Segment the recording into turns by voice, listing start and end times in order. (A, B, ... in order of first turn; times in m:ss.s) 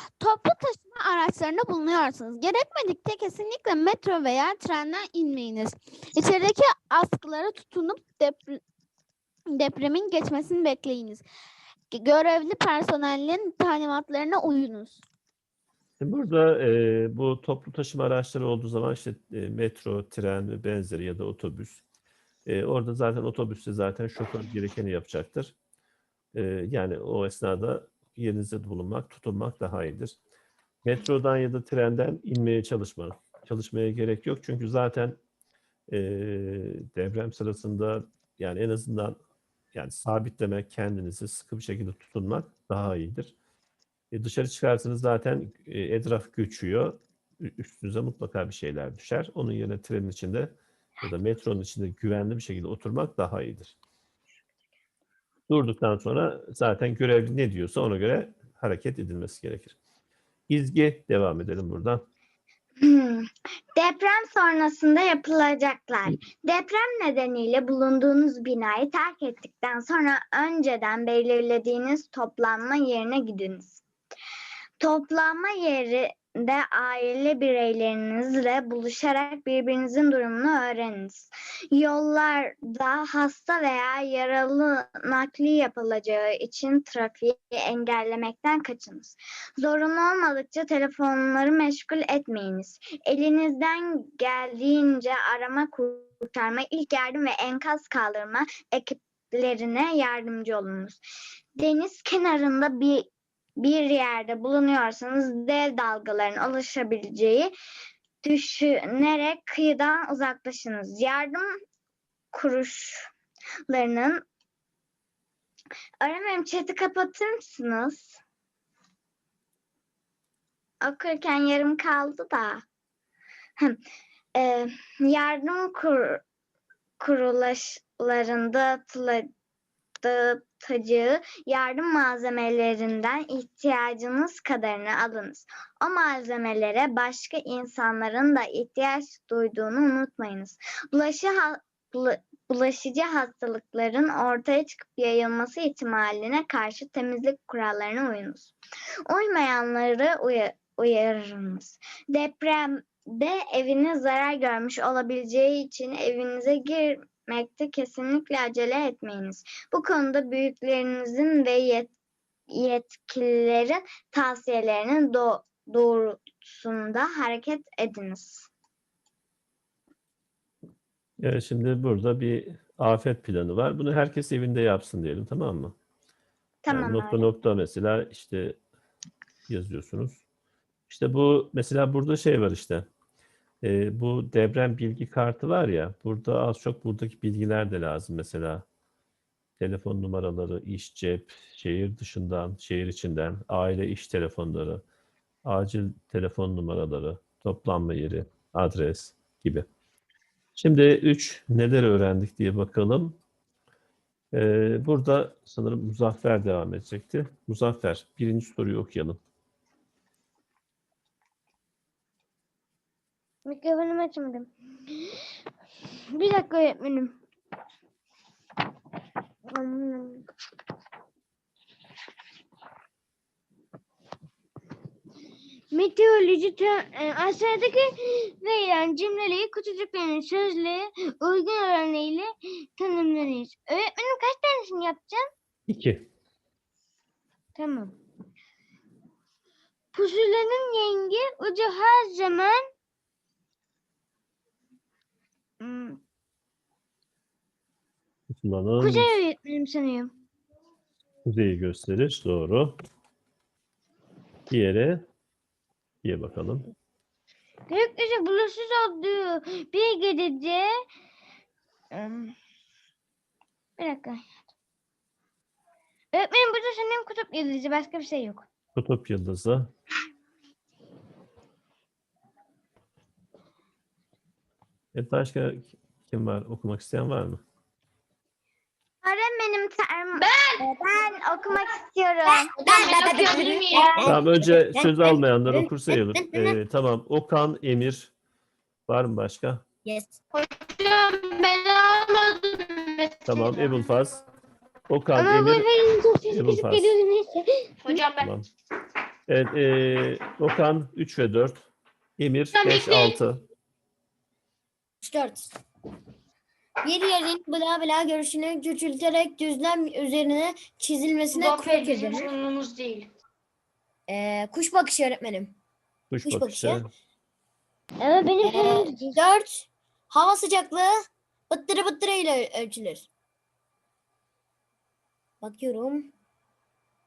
0:00.2-0:08.6 A
0:09.5-0:11.2 A
0:11.9-0:15.0 A
0:16.0-0:21.8 B
0:22.4-0:25.5 B
0:26.3-0:30.1 B
0:30.8-0:35.2 B
0:35.9-0:39.2 B
0:39.7-0:43.3 B
0:44.1-0:53.7 B
0:55.5-0:59.8 B
1:00.5-1:02.0 B
1:02.8-1:13.8 C
1:14.8-1:41.0 C
1:41.6-1:43.1 C
1:43.6-1:47.5 C
1:48.2-1:51.6 C
1:52.3-1:53.1 C
1:53.7-1:54.2 C
1:56.0-1:58.2 C
2:00.8-2:02.6 C
2:04.3-2:06.2 C
2:07.0-2:09.3 C
2:10.0-2:28.5 C
2:29.1-2:41.9 C
2:42.5-2:48.5 C
2:51.2-2:55.7 B
2:56.6-2:57.2 C
2:56.7-2:58.6 B
2:59.5-3:00.2 B
3:00.9-3:02.8 B
3:03.6-3:08.6 B
3:09.6-3:14.8 B
3:15.4-3:19.6 B
3:20.6-3:23.2 B
3:24.3-3:29.2 B
3:33.4-3:34.5 D
3:36.1-3:37.2 D
3:39.4-3:40.2 D
3:45.7-3:55.3 D
3:55.7-3:56.0 B
3:57.6-3:58.0 D
3:59.9-4:02.6 D
4:05.6-4:06.0 D
4:08.3-4:09.1 B
4:08.8-4:10.1 D
4:11.2-4:12.8 B
4:14.5-4:15.0 B
4:16.0-4:16.6 B
4:17.7-4:20.7 D
4:21.9-4:22.3 D
4:23.8-4:24.2 D
4:26.1-4:28.4 D
4:28.8-4:29.7 B
4:34.9-4:37.4 B
4:39.0-4:42.5 C
4:40.1-4:40.7 E
4:42.6-4:46.6 F
4:42.6-4:44.2 E
4:44.0-4:48.1 B
4:48.9-4:49.6 B
4:49.8-4:50.2 F
4:50.3-4:53.9 E
4:53.2-4:54.2 B
4:54.9-4:55.7 B
4:55.2-4:58.0 D
4:56.3-4:57.0 B
4:57.8-4:58.3 E
4:58.2-4:58.5 B
4:59.3-5:01.6 B
5:02.2-5:03.4 B
5:02.5-5:03.2 E
5:05.0-5:05.5 F
5:06.8-5:12.3 F
5:11.3-5:13.1 E
5:14.1-5:15.5 F
5:16.1-5:16.9 B
5:16.2-5:16.8 F
5:18.0-5:19.2 D
5:18.4-5:20.9 F
5:21.5-5:23.1 F
5:25.4-5:26.1 F